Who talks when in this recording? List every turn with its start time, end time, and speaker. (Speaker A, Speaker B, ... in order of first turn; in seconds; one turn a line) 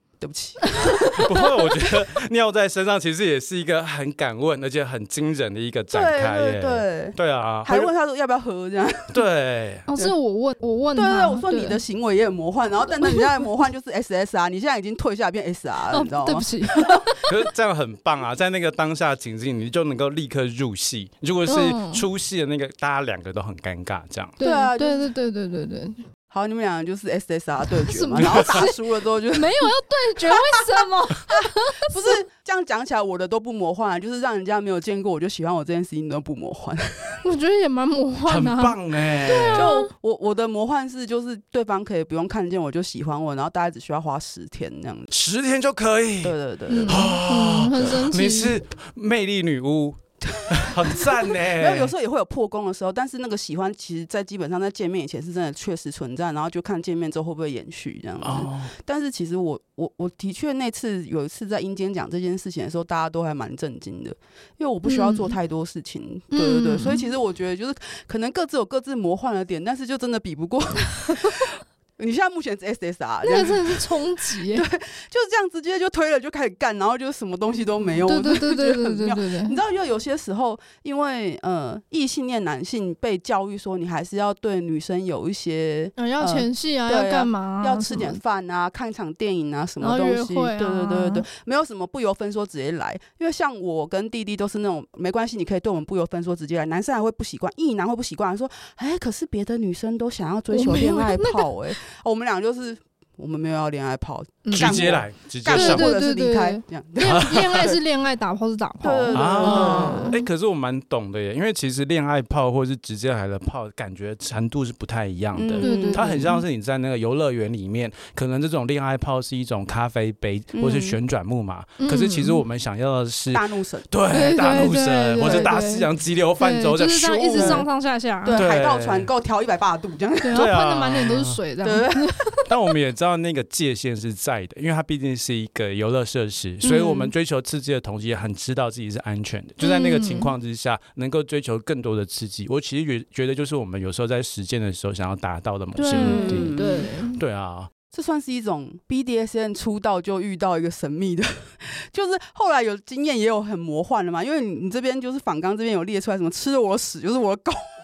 Speaker A: 0.2-1.3
Speaker B: 0.6-1.4
Speaker C: 1.2-7.9
Speaker A: 5.9-9.2
Speaker C: 9.1-9.9
Speaker B: 9.9-11.8
Speaker A: 10.9-17.1
Speaker B: 15.9-17.2
Speaker C: 17.2-24.4
Speaker B: 21.5-22.0
Speaker B: 24.4-26.0
Speaker A: 24.4-25.1
Speaker A: 26.3-37.2
Speaker B: 27.8-28.8
Speaker C: 28.2-28.5
Speaker B: 29.3-32.2
Speaker B: 37.2-39.9
Speaker C: 38.3-39.7
Speaker A: 39.5-45.1
Speaker C: 45.1-46.4
Speaker A: 46.2-47.1
Speaker B: 46.7-48.5
Speaker C: 46.9-51.9
Speaker A: 50.4-107.8
Speaker C: 58.2-58.7
Speaker B: 64.8-65.4
Speaker B: 66.3-67.1
Speaker B: 73.2-74.7
Speaker B: 78.0-79.6
Speaker B: 86.0-88.2
Speaker B: 89.8-91.3
Speaker B: 100.5-101.6
Speaker B: 104.5-105.0
Speaker C: 104.5-105.9
Speaker B: 105.5-110.2
Speaker C: 107.0-107.7
Speaker A: 108.8-110.2
Speaker C: 109.1-127.7
Speaker A: 115.3-116.3
Speaker B: 115.6-116.4
Speaker A: 120.5-121.0
Speaker B: 121.8-122.4
Speaker A: 123.3-123.9
Speaker B: 124.1-125.9
Speaker A: 125.2-125.5
Speaker B: 126.4-128.4
Speaker A: 127.3-127.7
Speaker A: 128.2-130.5
Speaker C: 128.3-129.1
Speaker B: 130.2-132.4
Speaker C: 130.3-131.4
Speaker A: 131.6-132.4
Speaker C: 132.5-147.7
Speaker A: 136.6-137.1
Speaker B: 139.6-140.3
Speaker B: 145.8-147.2
Speaker A: 145.9-146.9
Speaker A: 147.9-157.6